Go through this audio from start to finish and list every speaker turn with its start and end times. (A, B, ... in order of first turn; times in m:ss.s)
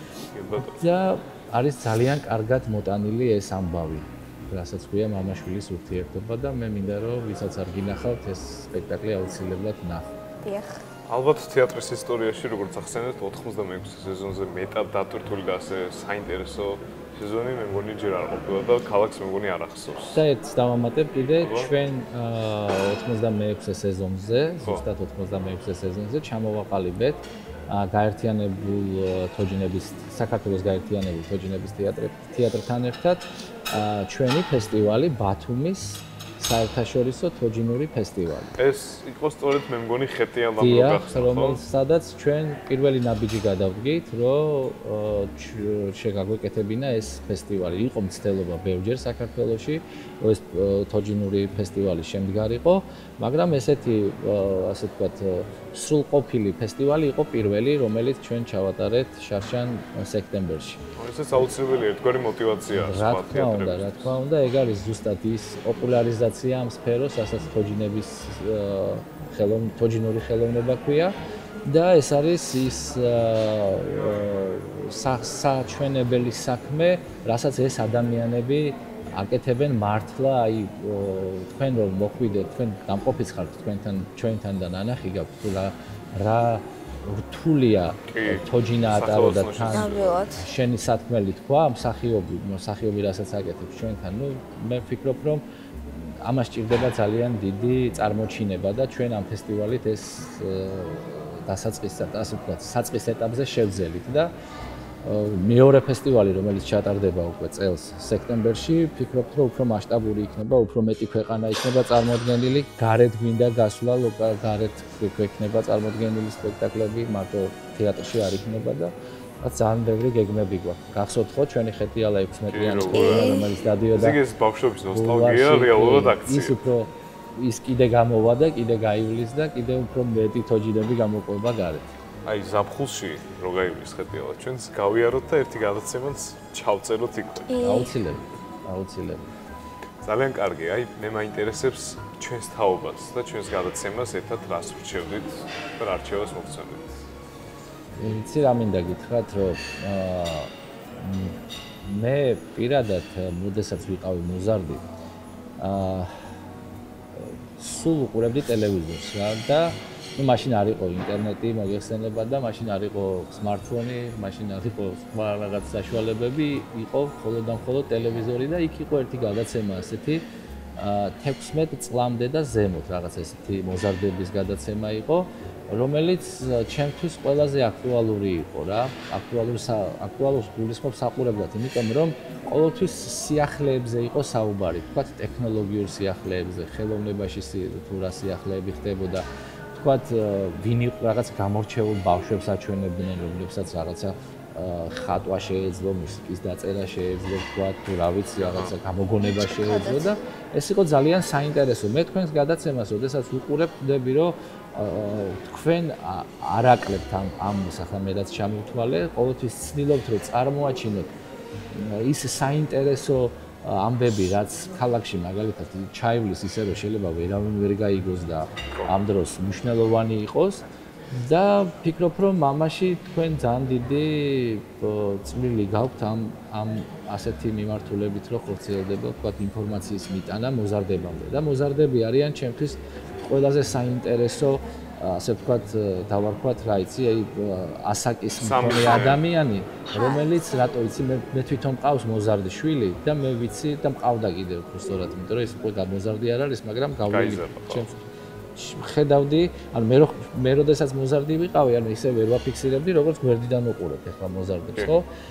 0:00.3-0:00.9 A
0:00.6-0:10.1 B
0:10.4-0:10.8 C
0:11.1-0:20.2 A
0:20.1-0:38.6 B
0:21.4-0:21.7 A
0:38.6-0:41.6 A
0:40.6-1:00.8 B
1:01.0-1:04.1 A
1:02.7-1:44.3 B
1:28.1-1:30.2 A
1:29.7-1:30.4 C
1:45.0-2:04.2 B
2:02.5-2:03.3 A
2:02.9-2:03.5 C
2:03.9-2:06.6 A
2:04.9-2:11.9 B
2:12.2-2:17.5 A
2:17.5-2:17.9 C
2:17.6-2:19.3 B
2:20.0-2:27.1 A
2:28.0-2:34.8 B
2:35.6-2:36.3 B
2:37.1-2:50.2 B
2:50.8-3:31.1 B
3:18.4-3:18.7 A
3:19.2-3:20.2 C
3:31.7-4:08.0 B
3:58.4-3:59.2 A
3:59.9-4:00.3 C
4:07.1-4:07.8 A
4:08.6-4:15.1 B